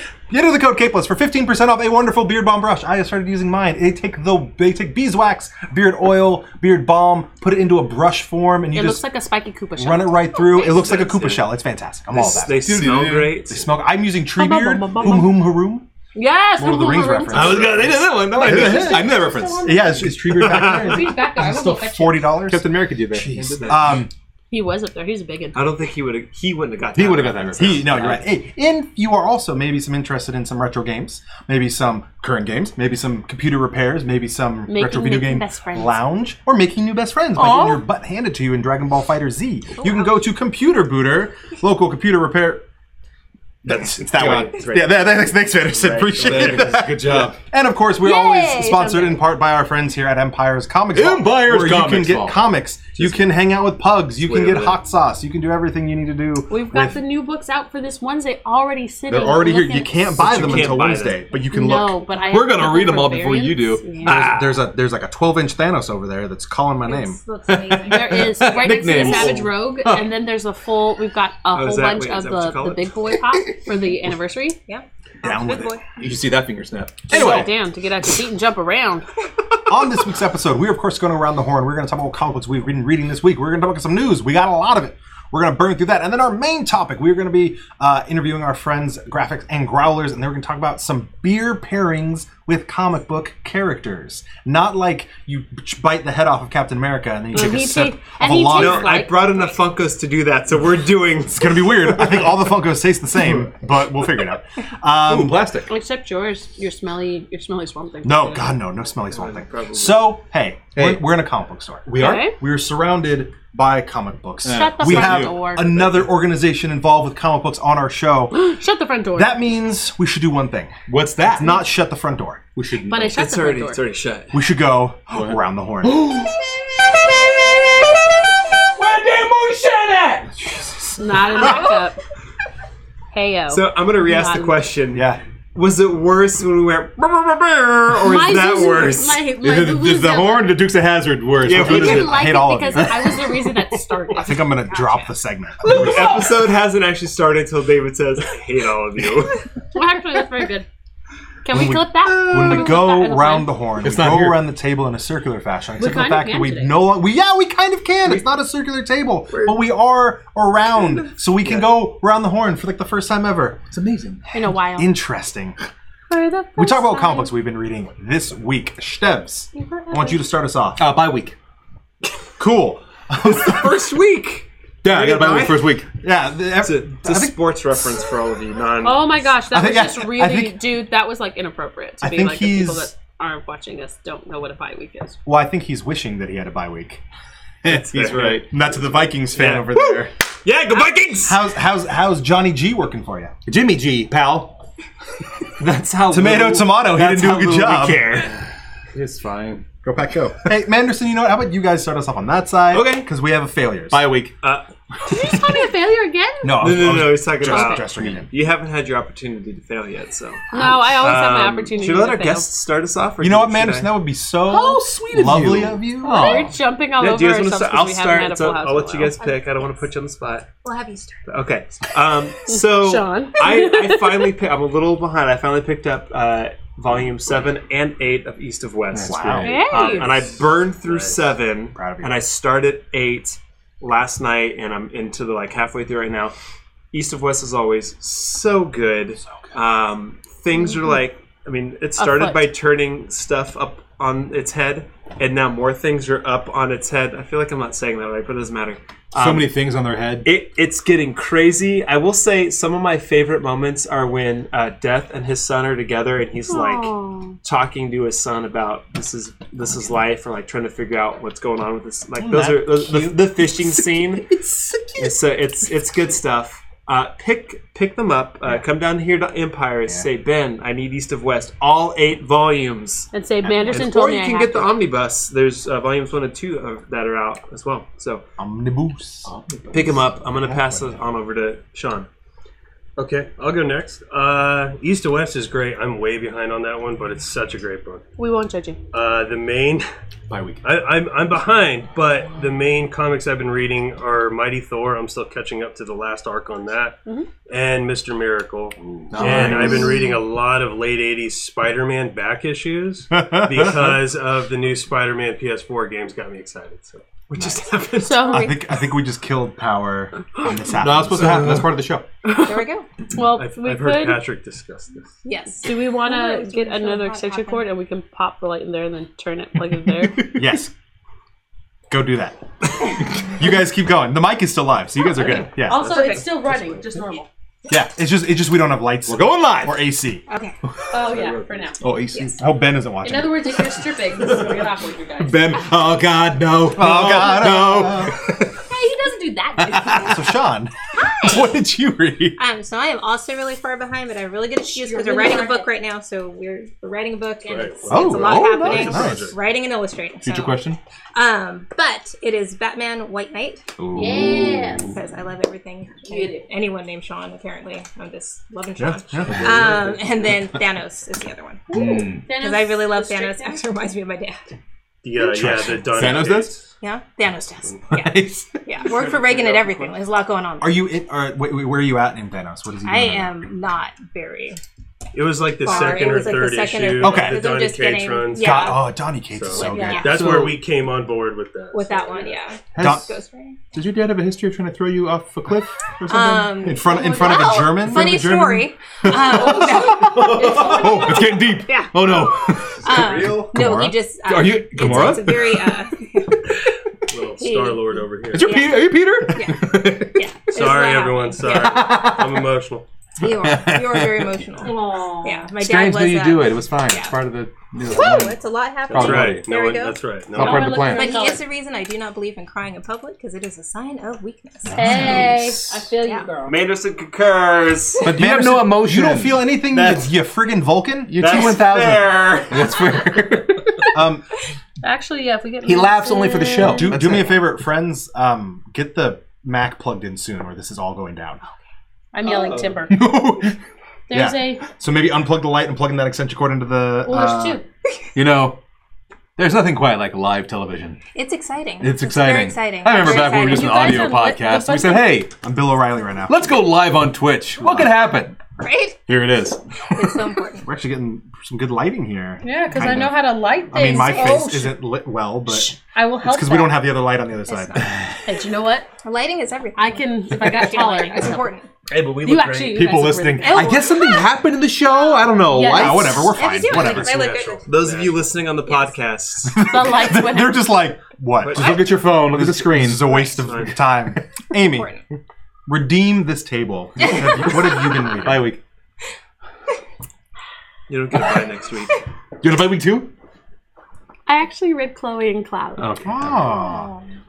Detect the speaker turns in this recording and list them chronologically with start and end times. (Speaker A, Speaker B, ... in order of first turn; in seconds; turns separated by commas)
Speaker A: 0.3-9.0, Speaker B: 8.7-11.0, Speaker A: 9.8-12.8, Speaker C: 10.7-11.5, Speaker C: 12.1-13.7, Speaker D: 12.2-13.4, Speaker A: 13.5-15.8, Speaker B: 14.3-15.5, Speaker B: 16.1-17.6, Speaker A: 16.6-24.1, Speaker D: 17.3-19.8, Speaker B: 18.7-20.1, Speaker C: 20.3-21.0, Speaker D: 20.6-24.0, Speaker B: 20.6-22.2, Speaker C: 23.5-24.0, Speaker B: 24.5-25.6, Speaker C: 25.5-28.1, Speaker D: 26.9-28.2, Speaker A: 27.6-42.6, Speaker B: 34.7-36.0, Speaker B: 37.4-37.8, Speaker E: 39.8-40.1, Speaker A: 43.6-57.0, Speaker D: 43.7-44.6, Speaker C: 44.0-46.9, Speaker D: 46.0-47.4, Speaker B: 48.0-49.3, Speaker D: 50.9-52.4, Speaker C: 54.2-54.8, Speaker B: 56.5-60.8, Speaker A: 59.1-62.0, Speaker C: 60.2-61.2, Speaker B: 61.5-64.3, Speaker D: 62.3-64.6, Speaker A: 64.0-67.2, Speaker E: 66.8-69.1, Speaker D: 67.5-70.1, Speaker B: 67.8-74.6, Speaker C: 71.5-72.9, Speaker E: 74.7-75.8, Speaker A: 75.2-75.8, Speaker D: 76.0-77.5, Speaker B: 77.1-79.1, Speaker A: 77.1-77.5, Speaker A: 79.7-99.1, Speaker B: 97.3-99.4, Speaker C: 98.5-102.4, Speaker A: 101.3-105.4, Speaker D: 103.2-103.5, Speaker D: 105.0-105.7, Speaker B: 105.7-108.6, Speaker A: 108.0-118.3, Speaker C: 109.1-110.2, Speaker D: 110.7-111.1, Speaker D: 111.8-112.3, Speaker B: 111.9-112.3, Speaker D: 114.4-116.1, Speaker B: 114.5-115.7, Speaker B: 118.3-119.4, Speaker A: 119.1-120.7, Speaker D: 120.9-121.6, Speaker A: 121.3-122.4, Speaker D: 122.5-123.2, Speaker B: 122.9-123.8, Speaker C: 123.1-124.3, Speaker A: 124.3-126.2, Speaker D: 125.1-130.3, Speaker A: 130.5-131.5, Speaker B: 131.0-132.0, Speaker B: 133.1-134.6, Speaker C: 133.5-139.2, Speaker A: 134.9-135.2, Speaker B: 138.0-140.6, Speaker D: 139.4-143.3, Speaker C: 141.4-142.3, Speaker A: 141.6-143.2, Speaker B: 141.6-144.5, Speaker A: 144.2-146.2, Speaker E: 144.7-145.1, Speaker C: 145.6-149.4, Speaker D: 145.6-146.3, Speaker B: 149.7-150.7, Speaker B: 151.4-153.5, Speaker A: 151.5-163.6, Speaker D: 152.1-152.8, Speaker D: 153.8-154.5, Speaker B: 155.8-156.8, Speaker D: 163.7-164.3, Speaker B: 164.3-164.9, Speaker A: 164.7-165.6, Speaker B: 166.1-167.3, Speaker A: 166.6-170.9, Speaker B: 169.5-170.2, Speaker D: 170.8-171.3, Speaker A: 172.4-173.8, Speaker C: 173.2-175.7, Speaker D: 174.8-175.9, Speaker A: 176.0-177.3, Speaker C: 176.6-179.2, Speaker B: 178.8-185.2, Speaker A: 179.5-180.6, Speaker A: 182.0-182.9, Speaker A: 185.2-187.0, Speaker D: 187.6-188.5, Speaker A: 187.7-190.1, Speaker C: 187.7-188.4, Speaker C: 189.3-191.4, Speaker A: 191.2-193.5, Speaker D: 193.5-194.5, Speaker C: 195.6-198.3, Speaker A: 196.1-198.1, Speaker D: 196.1-198.2, Speaker D: 198.9-200.4, Speaker A: 200.0-204.1, Speaker D: 202.7-203.1, Speaker C: 202.7-203.0, Speaker D: 203.9-204.3, Speaker B: 205.0-206.6, Speaker A: 206.4-208.3, Speaker C: 206.6-213.9, Speaker D: 206.6-207.1, Speaker B: 207.4-207.8, Speaker D: 207.8-208.2, Speaker B: 210.5-212.4, Speaker A: 213.2-216.5, Speaker D: 214.4-216.5, Speaker C: 216.1-216.3, Speaker B: 216.1-219.1, Speaker C: 217.0-220.5, Speaker E: 219.2-219.7, Speaker E: 220.6-221.3, Speaker C: 221.3-236.3, Speaker B: 222.5-224.3, Speaker D: 228.9-229.6, Speaker A: 229.1-229.7, Speaker B: 229.4-230.1, Speaker F: 230.8-231.2, Speaker A: 231.7-232.2, Speaker C: 236.9-249.5, Speaker B: 242.0-242.5, Speaker D: 249.1-250.3, Speaker C: 250.2-256.9, Speaker B: 256.5-257.4, Speaker C: 257.4-264.2, Speaker D: 262.2-265.1, Speaker C: 264.9-278.2, Speaker B: 273.1-274.7, Speaker A: 278.4-279.3, Speaker D: 279.2-280.9, Speaker C: 279.7-282.1, Speaker F: 283.0-288.0, Speaker B: 288.2-288.8, Speaker F: 288.9-289.9, Speaker D: 290.3-290.6, Speaker F: 290.6-307.1, Speaker D: 298.8-300.1, Speaker A: 299.3-299.8, Speaker A: 303.1-304.0, Speaker C: 307.3-308.5, Speaker A: 307.4-307.6, Speaker B: 308.0-308.5, Speaker A: 308.2-311.8, Speaker D: 310.7-312.1, Speaker B: 312.2-314.2, Speaker E: 312.3-312.9, Speaker F: 313.4-315.2, Speaker E: 315.2-317.6, Speaker B: 315.5-320.3, Speaker D: 320.2-320.4, Speaker A: 320.3-320.7, Speaker A: 321.9-322.4, Speaker A: 323.2-326.1, Speaker E: 325.2-326.6, Speaker B: 325.6-327.3, Speaker A: 327.7-330.2, Speaker D: 329.1-329.8, Speaker E: 330.3-330.6, Speaker B: 330.9-331.8, Speaker D: 330.9-332.4, Speaker E: 332.1-332.4, Speaker A: 332.4-333.7, Speaker B: 333.0-335.6, Speaker D: 335.2-338.6, Speaker A: 336.7-338.1, Speaker B: 338.6-340.2, Speaker D: 339.6-340.2, Speaker A: 339.9-342.4, Speaker E: 340.9-341.5, Speaker E: 342.4-354.1, Speaker B: 344.7-345.7, Speaker F: 347.4-349.4, Speaker A: 347.9-349.3, Speaker D: 347.9-349.2, Speaker D: 350.2-350.8, Speaker D: 353.8-355.0, Speaker B: 353.9-355.0, Speaker E: 354.9-364.4, Speaker B: 356.1-356.4, Speaker A: 358.8-359.8, Speaker D: 359.1-360.0, Speaker B: 361.7-363.6, Speaker D: 361.7-362.2, Speaker F: 365.0-366.6, Speaker D: 365.3-366.6, Speaker E: 366.8-370.8, Speaker D: 367.9-368.6, Speaker F: 368.9-369.9, Speaker A: 370.6-373.4, Speaker E: 372.8-374.6, Speaker F: 375.1-378.8, Speaker E: 375.6-378.8, Speaker A: 377.0-377.4, Speaker A: 378.3-380.1, Speaker F: 379.3-382.4, Speaker E: 379.5-380.4, Speaker B: 379.7-380.0, Speaker D: 380.0-380.6, Speaker E: 381.7-383.6, Speaker D: 382.7-383.1, Speaker A: 382.8-383.1, Speaker D: 383.7-386.7, Speaker E: 386.1-396.3, Speaker A: 386.6-388.7, Speaker D: 389.1-393.5, Speaker B: 390.4-391.3, Speaker A: 392.8-393.9, Speaker D: 394.2-395.8, Speaker F: 397.1-398.5, Speaker E: 397.4-397.8, Speaker D: 398.3-400.2, Speaker E: 398.4-401.7, Speaker F: 400.5-402.8, Speaker D: 401.4-402.5, Speaker E: 403.2-407.2, Speaker D: 403.2-404.4, Speaker B: 404.6-405.5, Speaker D: 405.6-409.5, Speaker E: 407.8-410.0, Speaker F: 408.9-410.8, Speaker D: 410.3-411.2, Speaker B: 410.4-411.4, Speaker E: 410.7-414.9, Speaker D: 414.6-415.8, Speaker B: 414.6-416.6, Speaker C: 416.4-418.1, Speaker D: 418.0-419.6, Speaker A: 418.1-421.5, Speaker C: 419.7-420.1, Speaker D: 421.1-423.7, Speaker C: 421.2-422.9, Speaker A: 423.9-424.2, Speaker B: 424.8-426.9, Speaker D: 425.6-427.4, Speaker A: 426.7-431.4, Speaker B: 432.1-433.2, Speaker D: 432.2-433.6, Speaker B: 434.1-434.6, Speaker A: 434.1-437.6, Speaker B: 437.0-437.6, Speaker D: 438.1-438.6, Speaker D: 439.4-441.0, Speaker E: 441.1-444.1, Speaker D: 441.8-445.3, Speaker B: 442.9-445.2, Speaker A: 445.4-446.6, Speaker D: 446.3-448.4, Speaker A: 447.6-447.9, Speaker E: 448.6-449.0, Speaker D: 449.1-449.6, Speaker E: 449.9-450.7, Speaker A: 450.6-457.9, Speaker B: 452.4-454.8, Speaker E: 454.2-454.4, Speaker B: 455.5-456.9, Speaker E: 457.5-458.0, Speaker B: 458.2-458.9, Speaker E: 459.0-461.7, Speaker B: 459.8-461.5, Speaker C: 461.9-463.0, Speaker B: 462.2-463.8, Speaker D: 462.6-466.4, Speaker E: 463.4-464.3, Speaker B: 465.5-466.2, Speaker A: 465.6-467.2, Speaker E: 466.3-467.6, Speaker F: 466.8-468.3, Speaker C: 467.6-469.6, Speaker E: 468.6-468.9, Speaker A: 469.5-474.9, Speaker B: 469.6-470.7, Speaker C: 471.4-471.8, Speaker D: 471.5-473.2, Speaker C: 473.2-473.7, Speaker E: 474.6-475.0, Speaker A: 475.7-478.6, Speaker E: 477.0-478.2, Speaker D: 477.1-477.6, Speaker D: 478.2-478.6, Speaker C: 480.9-482.0, Speaker D: 482.4-483.1, Speaker B: 484.3-485.9, Speaker D: 485.8-486.6, Speaker A: 486.0-486.9, Speaker E: 486.4-487.1